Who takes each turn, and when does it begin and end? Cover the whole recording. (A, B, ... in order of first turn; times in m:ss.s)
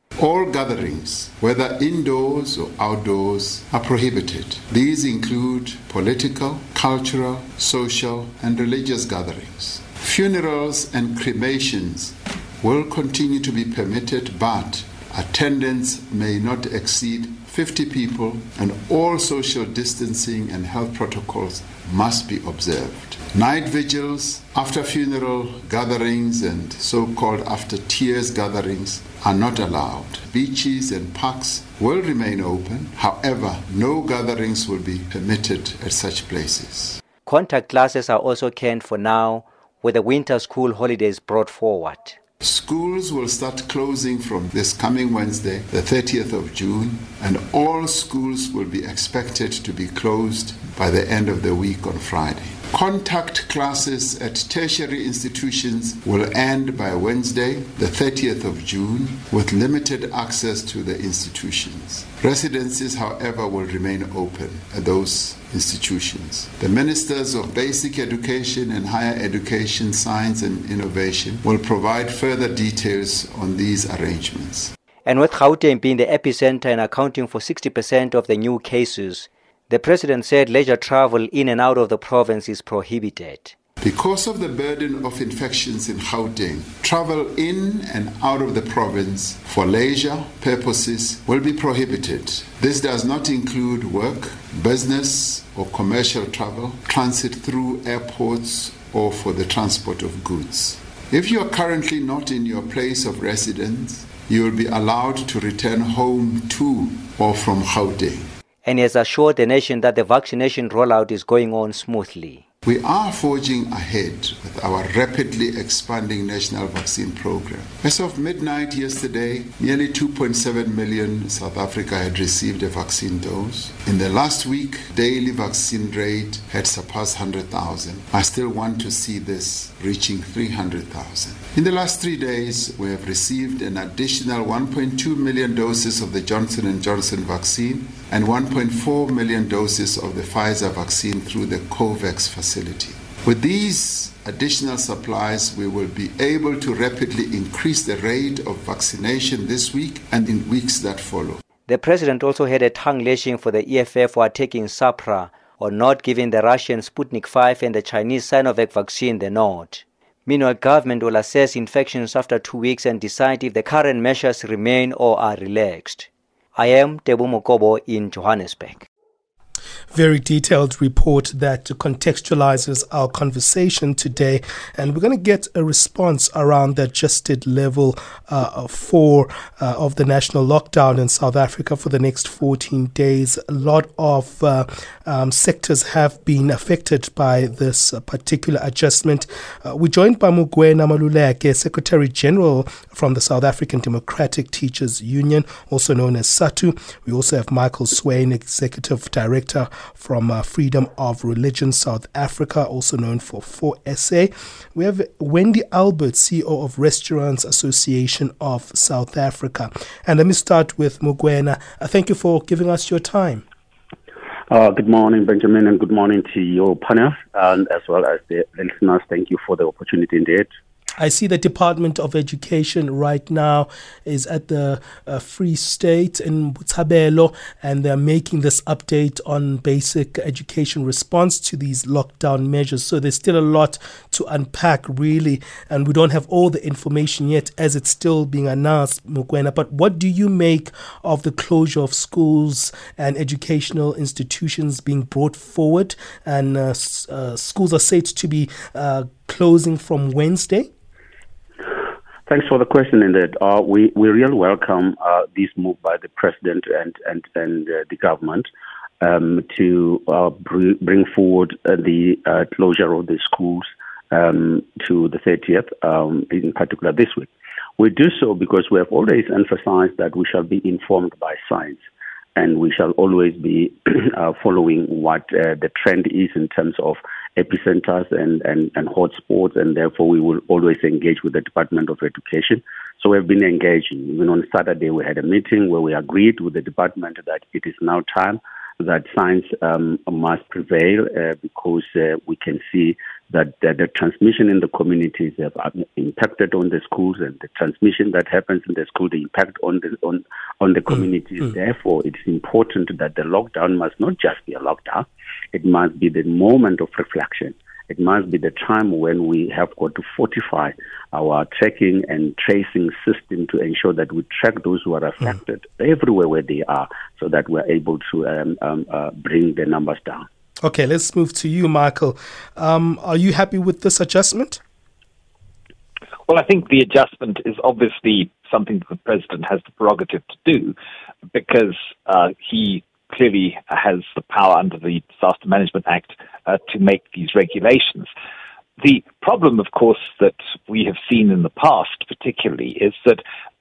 0:00.2-0:37.0 A
0:37.2-0:42.2 B
0:42.4-1:14.7 A
1:15.0-1:23.5 B
1:23.8-1:48.3 A
1:48.6-1:52.4 B
1:52.6-2:31.4 A
2:31.7-2:48.9 B
2:49.9-3:33.4 C
3:34.5-3:40.5 D
3:41.0-4:10.7 C
4:12.3-4:18.5 D
4:19.0-4:31.8 D
4:32.4-5:20.2 D
5:20.6-5:24.6 C
5:26.3-5:30.7 E
5:31.3-5:38.1 E
5:38.8-5:43.2 E